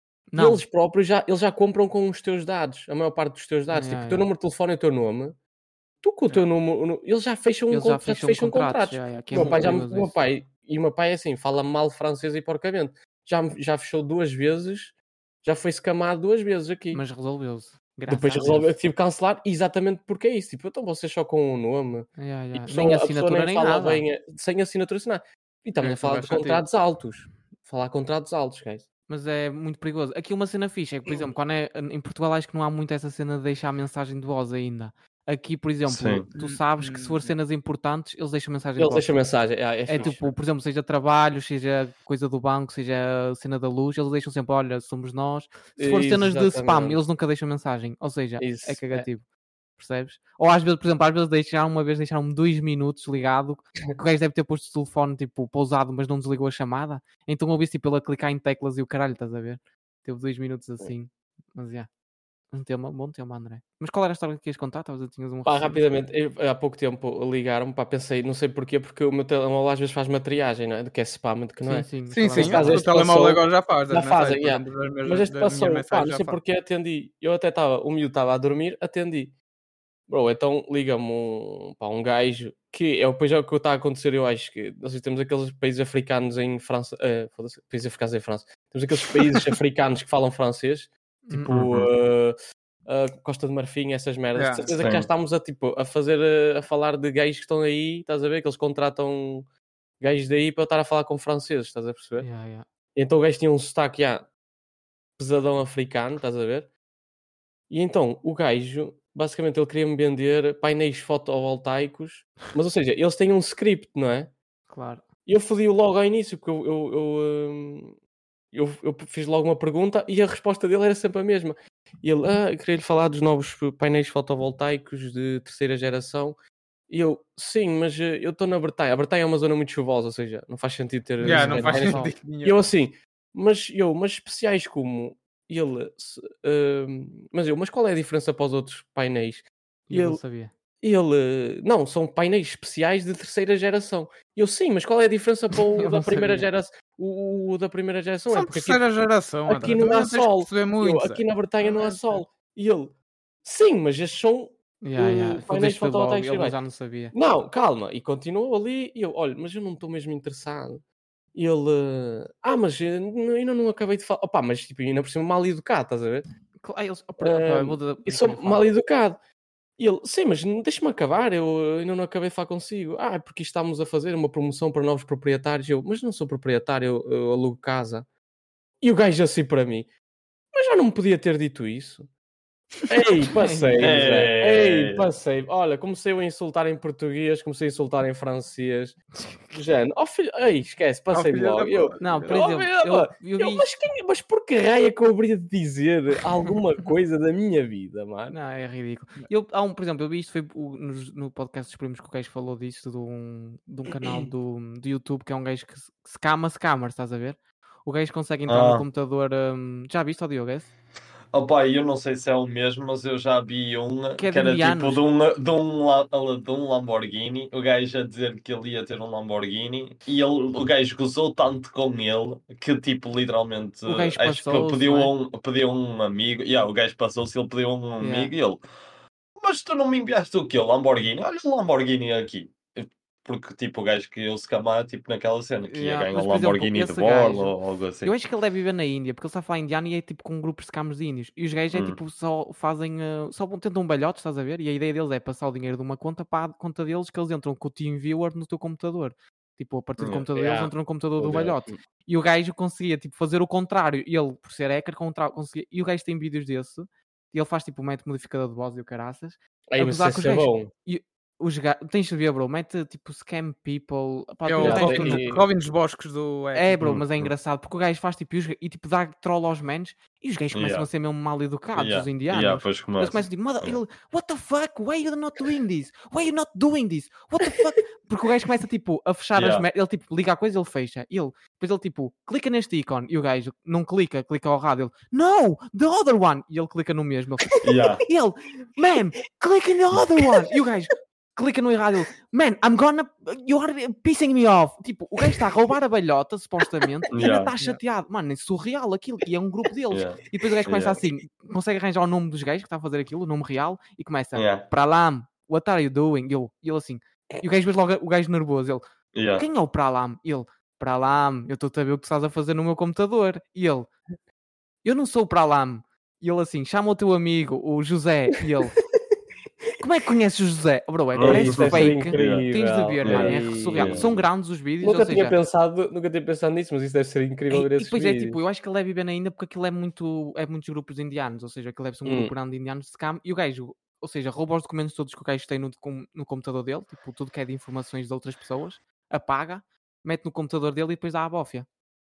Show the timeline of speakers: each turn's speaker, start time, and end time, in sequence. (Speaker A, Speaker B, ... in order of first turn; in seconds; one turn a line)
Speaker A: 0.3-0.6
Speaker B: 0.3-5.4
Speaker A: 3.7-4.3
Speaker B: 6.0-17.0
Speaker A: 7.7-10.2
Speaker A: 16.9-18.7
Speaker B: 18.1-28.9
Speaker A: 22.2-24.1
Speaker C: 25.8-26.6
Speaker A: 29.1-39.2
Speaker D: 35.9-36.3
Speaker C: 36.3-37.3
Speaker B: 38.8-40.3
Speaker A: 39.9-49.2
Speaker B: 45.8-47.0
Speaker B: 48.4-49.1
Speaker A: 49.8-61.9
Speaker A: 62.5-65.8
Speaker B: 65.4-79.3
Speaker A: 71.6-72.9
Speaker C: 72.1-76.4
Speaker B: 80.1-92.3
Speaker A: 91.2-91.5
Speaker D: 91.5-91.9
Speaker B: 92.8-99.5
Speaker C: 94.3-94.7
Speaker D: 94.8-95.1
Speaker B: 100.0-102.3
Speaker A: 102.2-102.6
Speaker B: 102.9-104.3
Speaker B: 105.2-106.7
Speaker B: 107.7-114.3
Speaker A: 114.7-115.0
Speaker B: 115.2-118.0
Speaker B: 118.5-126.4
Speaker B: 126.9-140.2
Speaker C: 131.2-132.6
Speaker A: 131.2-132.2
Speaker A: 139.9-140.5
Speaker B: 140.8-148.9
Speaker A: 145.8-146.5
Speaker C: 148.3-152.2
Speaker B: 149.5-156.6
Speaker A: 154.8-157.1
Speaker B: 157.1-160.8
Speaker B: 161.3-166.3
Speaker A: 166.6-168.6
Speaker B: 167.2-169.2
Speaker B: 169.8-178.1
Speaker B: 178.8-179.9
Speaker B: 180.5-182.1
Speaker B: 182.9-189.0
Speaker A: 183.4-184.0
Speaker D: 183.8-185.1
Speaker A: 189.2-189.5
Speaker B: 189.5-198.3
Speaker C: 191.1-192.3
Speaker A: 192.0-193.7
Speaker A: 198.3-210.7
Speaker D: 208.5-208.9
Speaker D: 211.3-228.6
Speaker A: 214.2-215.0
Speaker A: 223.9-225.1
Speaker A: 228.0-228.3
Speaker D: 229.4-238.1
Speaker A: 235.7-265.3
Speaker D: 241.7-242.0
Speaker D: 250.0-250.2
Speaker B: 250.3-251.8
Speaker B: 259.7-260.7
Speaker C: 264.4-266.7
Speaker B: 264.6-265.4
Speaker A: 266.5-308.8
Speaker D: 266.8-267.3
Speaker D: 270.5-270.9
Speaker D: 271.7-273.8
Speaker D: 279.3-279.6
Speaker D: 287.6-288.0
Speaker D: 297.1-297.5
Speaker D: 299.9-301.0
Speaker D: 304.3-304.7
Speaker D: 309.1-309.4
Speaker A: 309.3-313.9
Speaker A: 314.8-318.8
Speaker A: 319.8-325.4
Speaker D: 321.1-322.5
Speaker B: 321.2-324.2
Speaker D: 323.0-324.2
Speaker B: 324.8-328.4
Speaker A: 327.5-341.7
Speaker B: 332.0-332.3